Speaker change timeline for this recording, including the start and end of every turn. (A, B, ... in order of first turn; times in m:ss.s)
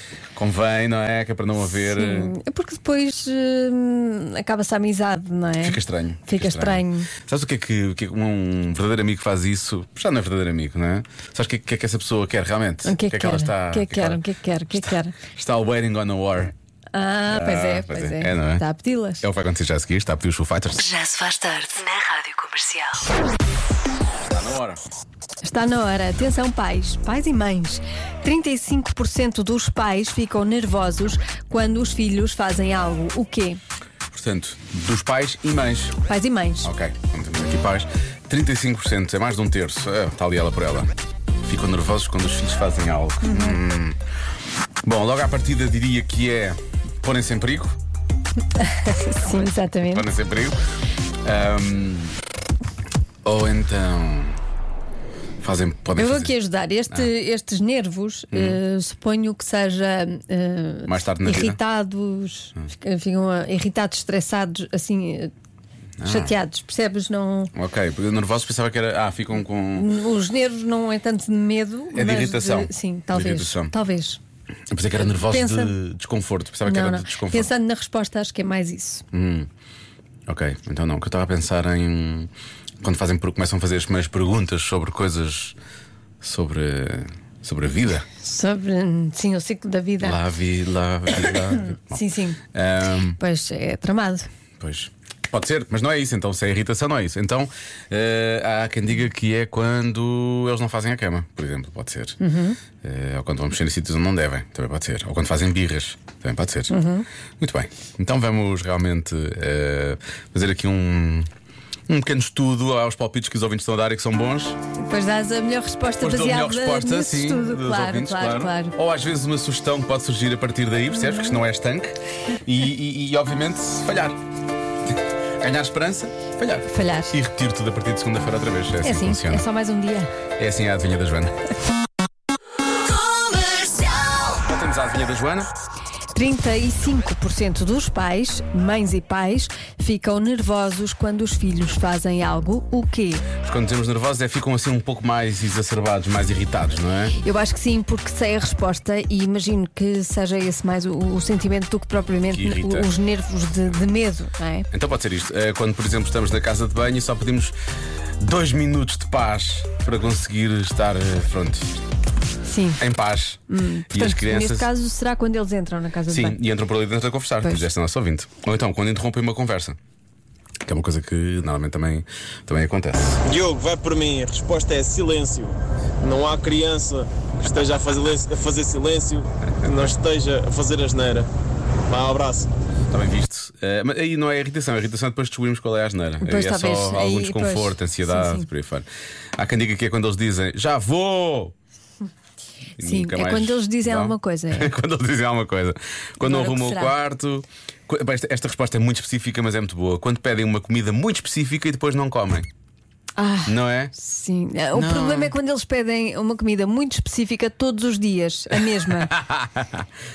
0:00.4-0:02.4 A
0:01.9-0:07.1 B
0:05.6-0:14.2 A
0:12.8-0:15.2 B
0:14.7-0:16.5 A
0:16.9-0:19.2 B
0:17.3-0:18.6 A
0:19.2-0:20.9 A
0:20.9-0:22.9 C
0:24.2-0:24.8 A
0:25.4-0:33.6 B
0:34.1-0:36.0 A
0:36.1-0:36.7 B
0:36.6-0:44.0 A
0:43.2-0:43.6 B
0:44.8-0:47.8 A
0:48.6-0:50.1 B
0:49.2-0:50.6 A
0:51.2-0:52.2 A
0:53.2-0:54.4 A
0:55.4-0:56.3 A
0:56.0-1:05.3 B
0:58.3-0:58.6 A
1:00.9-1:01.6 A
1:06.0-1:06.4 A
1:06.0-1:07.5 B
1:07.6-1:09.9 A
1:09.8-1:14.2 B
1:11.9-1:13.7 A
1:14.7-1:17.5 A
1:15.1-1:15.8 B
1:16.6-1:19.0 B
1:19.1-1:19.5 A
1:20.3-1:22.3 A
1:22.8-1:25.6 A
1:26.2-1:28.1 A
1:28.2-1:30.2 B
1:30.0-1:32.0 A
1:31.8-1:32.4 B
1:32.5-1:33.2 A
1:33.2-1:34.3 B
1:34.6-1:42.2 A
1:42.2-1:42.6 B
1:42.8-1:46.7 A
1:46.7-1:47.1 B
1:47.4-1:51.3 A
1:51.9-1:54.6 A
1:54.8-1:58.8 B
1:56.0-2:01.9 A
2:01.0-2:01.4 B
2:02.4-2:04.2 A
2:05.4-2:09.4 A
2:06.7-2:07.1 B
2:08.8-2:10.1 B
2:10.4-2:11.3 A
2:14.3-2:15.5 A
2:16.1-2:23.3 B
2:23.4-2:27.2 A
2:27.2-2:34.7 B
2:32.3-2:32.9 A
2:34.7-2:37.6 A
2:38.2-2:41.7 A
2:42.4-2:42.8 B
2:42.8-2:44.7 A
2:43.5-2:46.4 B
2:46.1-2:49.8 A
2:50.6-2:53.2 A
2:53.3-3:01.3 D
3:01.9-3:02.5 D
3:02.9-3:11.6 A
3:06.2-3:08.5 B
3:12.8-3:22.5 A
3:12.8-3:14.7 B
3:16.2-3:16.9 B
3:23.2-3:29.1 B
3:23.5-3:23.9 A
3:24.7-3:25.3 A
3:29.0-3:29.9 A